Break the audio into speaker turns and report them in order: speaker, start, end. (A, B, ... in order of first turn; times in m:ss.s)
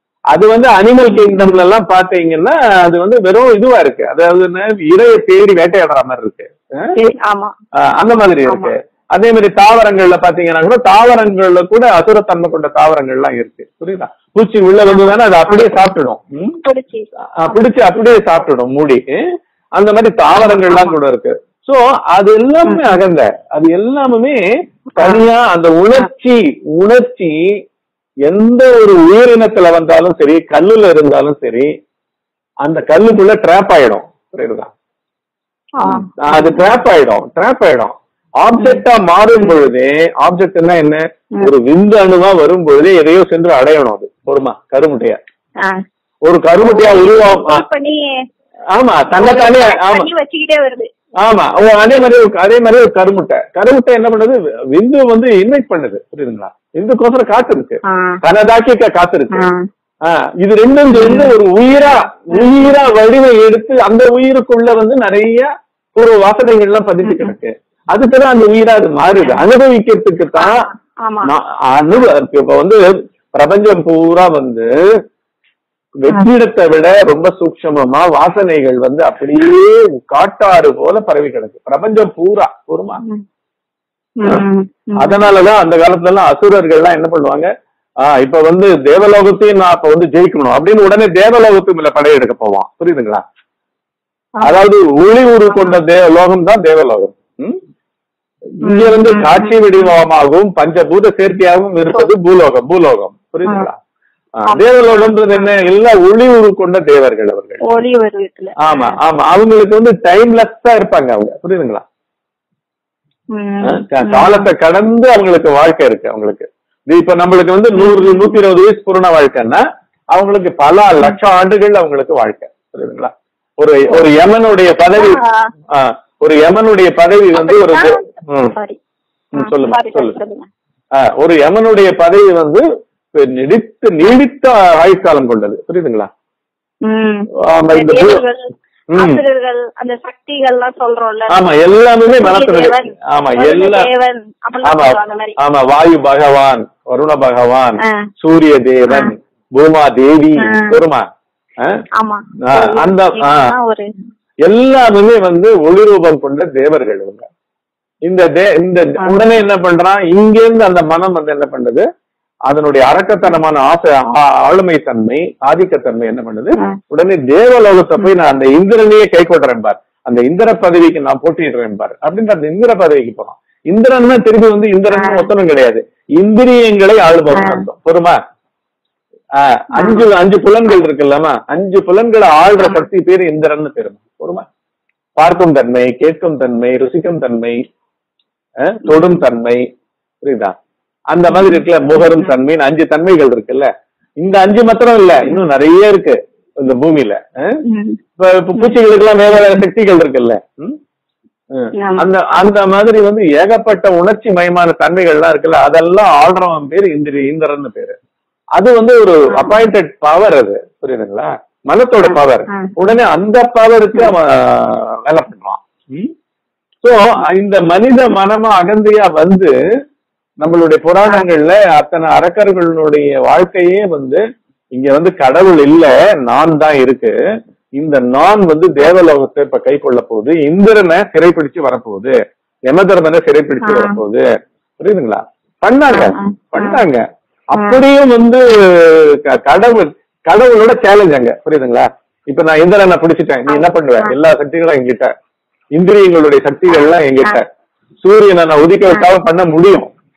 0:00.3-0:06.9 A
0:01.1-0:01.6 B
0:06.9-0:07.5 B
0:07.8-0:16.6 A
0:08.4-0:08.7 B
0:14.9-0:15.7 B
0:16.5-0:17.6 B
0:17.4-0:19.2 A
0:19.8-0:24.4 A
0:22.7-0:23.0 B
0:25.0-0:25.2 B
0:25.0-0:27.4 A
0:28.3-0:31.7 A
0:32.6-0:34.7 A
0:35.8-0:36.6 B
0:35.9-0:45.2 A
0:46.2-0:47.6 A
0:46.6-0:48.0 B
0:48.7-0:50.1 A
0:49.2-0:50.9 B
0:51.2-0:59.5 A
0:57.8-0:58.2 B
0:59.3-0:59.6 B
1:00.0-1:10.7 A
1:00.9-1:01.3 B
1:07.0-1:07.4 B
1:10.4-1:11.3 B
1:11.2-1:14.7 A
1:16.0-1:23.0 A
1:24.2-1:25.3 B
1:25.0-1:27.5 A
1:28.0-1:33.2 A
1:34.4-1:37.6 A
1:35.5-1:35.8 B
1:38.6-1:39.6 B
1:38.6-1:43.8 A
1:44.4-1:47.6 A
1:44.5-1:45.2 B
1:47.6-1:49.0 B
1:48.6-1:51.8 A
1:53.3-1:54.5 B
1:53.6-2:05.2 A
1:57.8-1:58.4 B
2:04.9-2:05.5 B
2:05.7-2:08.5 A
2:07.3-2:08.8 B
2:09.3-2:10.2 A
2:09.4-2:10.5 B
2:11.0-2:16.1 A
2:16.8-2:21.4 B
2:17.4-2:18.2 A
2:18.9-2:19.2 A
2:21.3-2:23.9 A
2:22.2-2:25.4 B
2:24.6-2:31.1 A
2:27.8-2:28.1 B
2:30.4-2:30.8 B
2:32.0-2:33.9 B
2:32.4-2:33.5 A
2:34.5-2:37.3 A
2:38.1-2:41.8 A
2:42.5-2:58.2 A
2:54.9-2:55.3 B
2:57.3-2:57.6 B
2:59.4-3:04.5 A
2:59.8-3:00.0 B
3:05.2-3:07.6 A
3:08.6-3:09.6 A
3:10.2-3:10.6 A
3:11.1-3:17.6 A
3:11.3-3:12.3 B
3:17.6-3:18.0 B
3:18.2-3:20.8 A
3:21.5-3:28.0 A
3:21.8-3:22.1 B
3:28.6-3:36.1 A
3:29.3-3:29.6 B
3:32.0-3:32.7 B
3:36.8-3:39.5 A
3:40.4-3:44.2 A
3:44.7-3:47.1 A
3:47.8-3:54.3 A
3:53.6-3:54.0 B
3:54.8-4:05.1 A
3:55.9-3:56.8 B
4:03.5-4:04.2 B
4:05.8-4:07.4 A
4:08.0-4:09.9 A